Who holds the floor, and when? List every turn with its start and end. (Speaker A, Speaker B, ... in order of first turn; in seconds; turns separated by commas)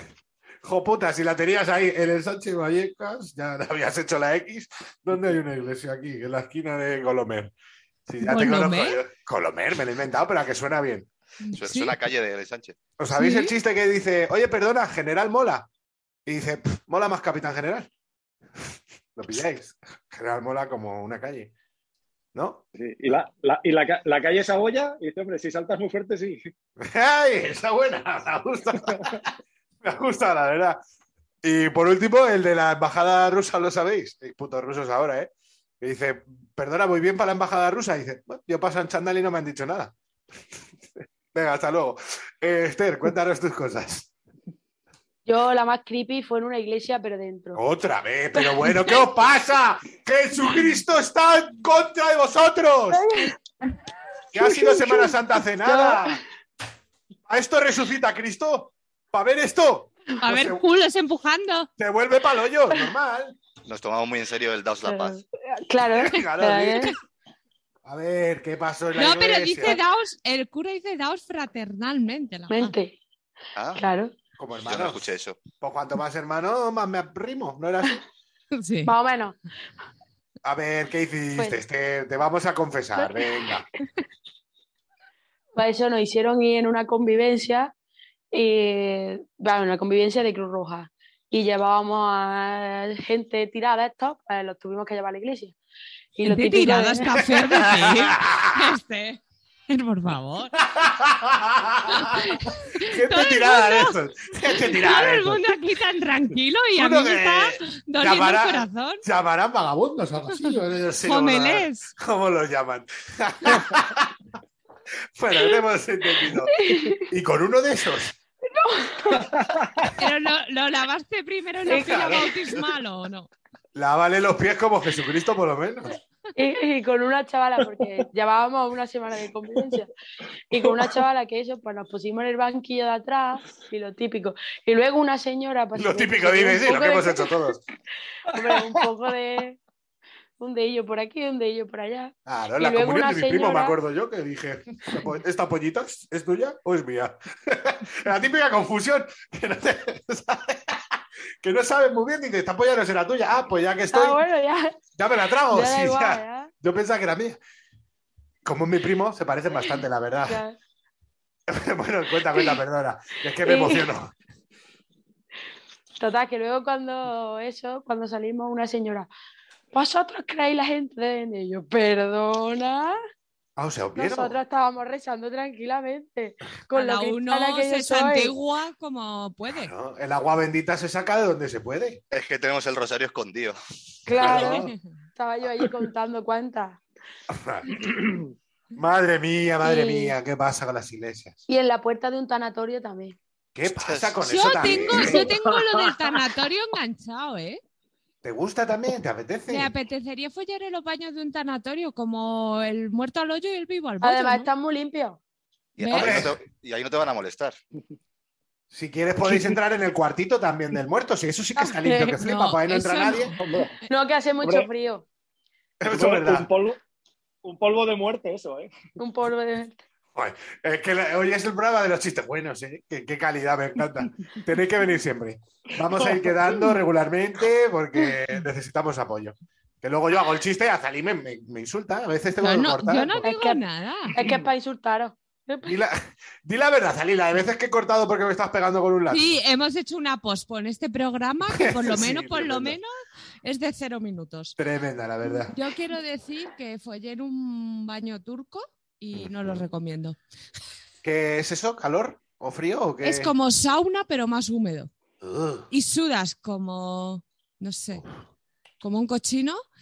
Speaker A: 0.6-7.5, Speaker A: 8.1-11.1, Speaker B: 8.2-9.0, Speaker B: 11.4-11.9, Speaker C: 11.6-12.8, Speaker A: 13.0-15.7, Speaker B: 13.2-13.5, Speaker A: 16.2-17.9, Speaker A: 19.1-21.5, Speaker A: 22.3-22.6, Speaker D: 22.8-26.5, Speaker A: 26.8-29.2, Speaker A: 29.8-30.8, Speaker A: 31.4-39.9, Speaker A: 41.3-44.1, Speaker E: 45.2-47.6, Speaker A: 47.5-53.0, Speaker E: 48.4-49.0, Speaker E: 52.9-53.3, Speaker A: 54.3-56.2, Speaker E: 54.3-56.2, Speaker A: 57.3-60.6, Speaker B: 60.2-61.7, Speaker A: 61.8-63.4, Speaker C: 63.6-65.2, Speaker E: 64.9-66.9, Speaker A: 65.8-66.9, Speaker A: 67.8-69.8, Speaker B: 69.0-72.7, Speaker E: 72.5-73.0, Speaker C: 73.5-73.8, Speaker E: 73.8-74.1, Speaker A: 74.4-78.0, Speaker C: 74.6-75.4, Speaker B: 78.6-78.9, Speaker E: 78.9-79.3, Speaker A: 80.4-83.7, Speaker E: 85.5-87.7, Speaker E: 88.3-95.5, Speaker E: 96.2-97.2, Speaker B: 96.2-100.5, Speaker A: 97.3-98.7, Speaker A: 100.6-102.2, Speaker B: 101.9-103.9, Speaker A: 102.8-105.4, Speaker B: 104.5-109.0, Speaker A: 106.7-114.2, Speaker B: 110.3-111.9, Speaker A: 115.2-118.2, Speaker E: 116.5-117.0, Speaker E: 118.5-119.2, Speaker D: 119.2-119.9, Speaker B: 120.0-123.3, Speaker E: 121.7-122.3, Speaker A: 121.7-122.3, Speaker A: 123.7-125.9, Speaker E: 126.3-129.9, Speaker E: 130.5-137.3, Speaker A: 135.8-137.6, Speaker E: 138.3-139.6, Speaker E: 140.4-143.8, Speaker A: 142.2-154.2, Speaker E: 153.9-154.8, Speaker A: 155.0-157.4, Speaker E: 155.5-156.5, Speaker A: 158.4-160.4, Speaker E: 160.3-160.5, Speaker A: 161.5-164.1, Speaker E: 163.4-163.8, Speaker E: 166.0-169.1, Speaker E: 169.7-173.0, Speaker A: 173.6-174.4, Speaker E: 173.9-178.3, Speaker B: 176.7-179.7, Speaker A: 179.5-182.0, Speaker C: 182.1-183.6, Speaker E: 184.1-186.8, Speaker C: 184.2-184.5, Speaker A: 184.2-184.7, Speaker A: 187.3-187.9, Speaker A: 188.8-191.4, Speaker E: 189.6-190.1, Speaker E: 191.5-193.2, Speaker A: 193.5-195.3, Speaker C: 193.7-195.0, Speaker B: 194.2-197.6, Speaker D: 195.0-195.7, Speaker A: 198.2-199.7, Speaker B: 199.5-204.5, Speaker E: 204.0-205.2, Speaker C: 205.8-207.6, Speaker B: 205.8-206.2, Speaker A: 205.9-206.4, Speaker A: 208.7-213.3, Speaker E: 211.6-212.2, Speaker B: 212.2-213.4, Speaker D: 213.4-213.7, Speaker E: 213.9-215.1, Speaker D: 214.4-214.7, Speaker A: 215.8-216.5, Speaker D: 215.9-216.8, Speaker D: 217.4-218.7, Speaker E: 219.0-219.8, Speaker A: 220.1-233.2, Speaker B: 232.4-234.1, Speaker E: 233.2-233.6, Speaker E: 234.1-235.8, Speaker A: 235.6-239.4, Speaker B: 239.1-242.9, Speaker A: 241.5-242.8, Speaker B: 243.4-244.6, Speaker A: 244.6-245.5, Speaker B: 245.5-250.2, Speaker A: 249.1-249.6, Speaker A: 251.0-253.3, Speaker B: 253.0-254.9, Speaker A: 255.2-255.7, Speaker B: 255.7-258.0, Speaker B: 258.8-259.6